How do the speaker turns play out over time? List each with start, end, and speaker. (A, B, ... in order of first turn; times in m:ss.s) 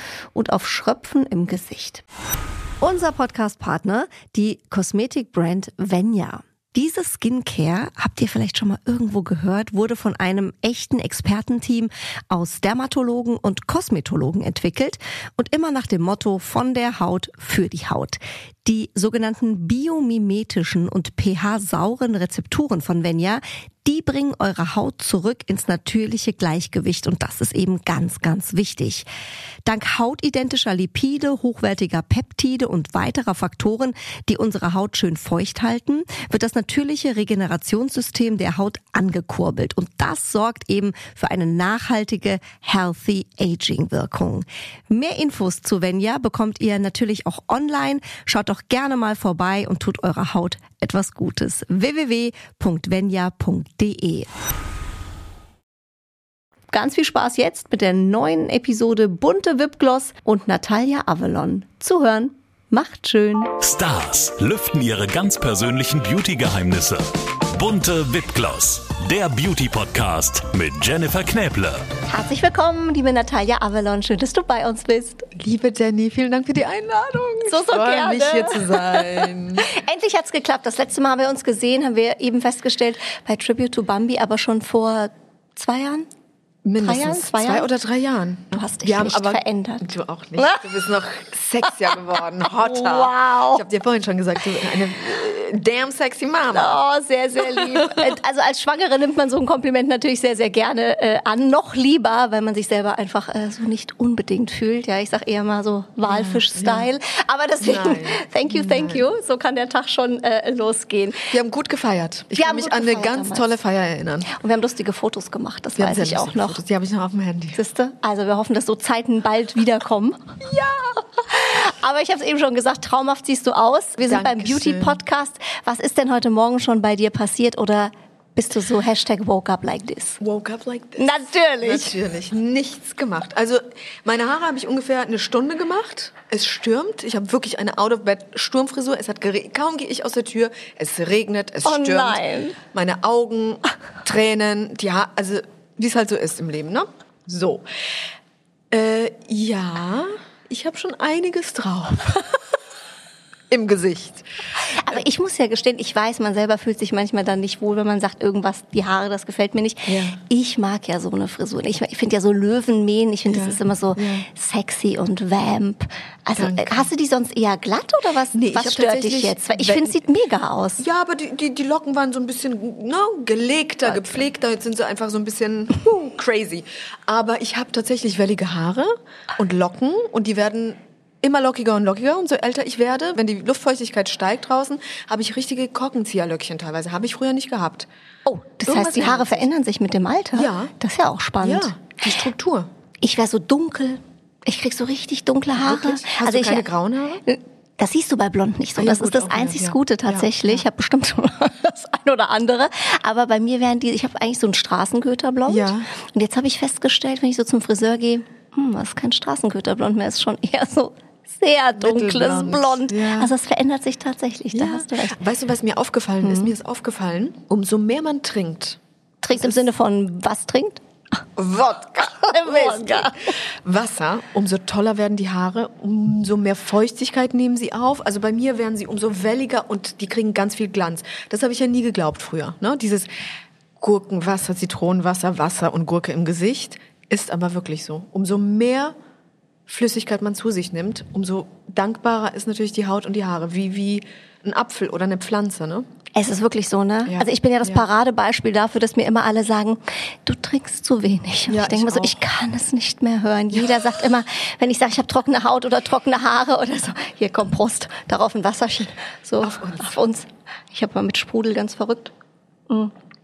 0:00.4-0:02.0 A
0:02.8-0:29.1 A
0:29.6-0:54.3 A
0:56.7-1:03.6 A
1:03.6-1:11.8 B
1:12.1-1:15.2 A
1:15.4-1:19.7 C
1:17.5-1:26.1 A
1:26.6-1:36.8 C
1:26.8-1:27.7 A
1:28.5-1:30.6 A
1:32.5-1:33.6 A
1:36.5-1:51.3 A
1:37.4-1:38.1 C
1:46.0-1:46.9 C
1:47.6-1:49.0 C
1:51.3-1:54.3 C
1:52.4-1:53.6 A
1:54.3-1:56.6 A
1:55.8-1:57.6 C
1:57.6-2:00.4 A
2:00.4-2:01.0 C
2:01.3-2:10.2 A
2:04.0-2:05.0 C
2:10.2-2:22.2 C
2:11.0-2:12.0 A
2:21.6-2:22.6 A
2:22.7-2:27.7 C
2:28.7-2:32.4 C
2:33.5-2:34.2 C
2:34.6-2:50.8 A
2:39.9-2:40.2 C
2:43.3-2:44.3 C
2:46.4-2:46.9 C
2:48.3-2:50.0 C
2:50.8-3:07.9 C
3:08.3-3:11.7 A
3:08.6-3:09.5 C
3:10.3-3:10.7 C
3:11.4-3:12.7 C
3:13.0-3:16.7 A
3:15.6-3:17.2 C
3:17.3-3:35.2 A
3:18.8-3:20.6 C
3:25.5-3:25.9 C
3:31.8-3:33.3 C
3:34.5-3:38.8 C
3:36.2-3:36.5 A
3:39.2-3:40.8 A
3:39.3-3:39.7 C
3:41.4-3:53.1 C
3:42.0-3:43.4 A
3:53.8-3:59.0 C
3:59.7-4:05.9 C
4:06.2-4:22.1 A
4:07.1-4:07.9 C
4:11.5-4:12.2 C
4:19.4-4:20.0 C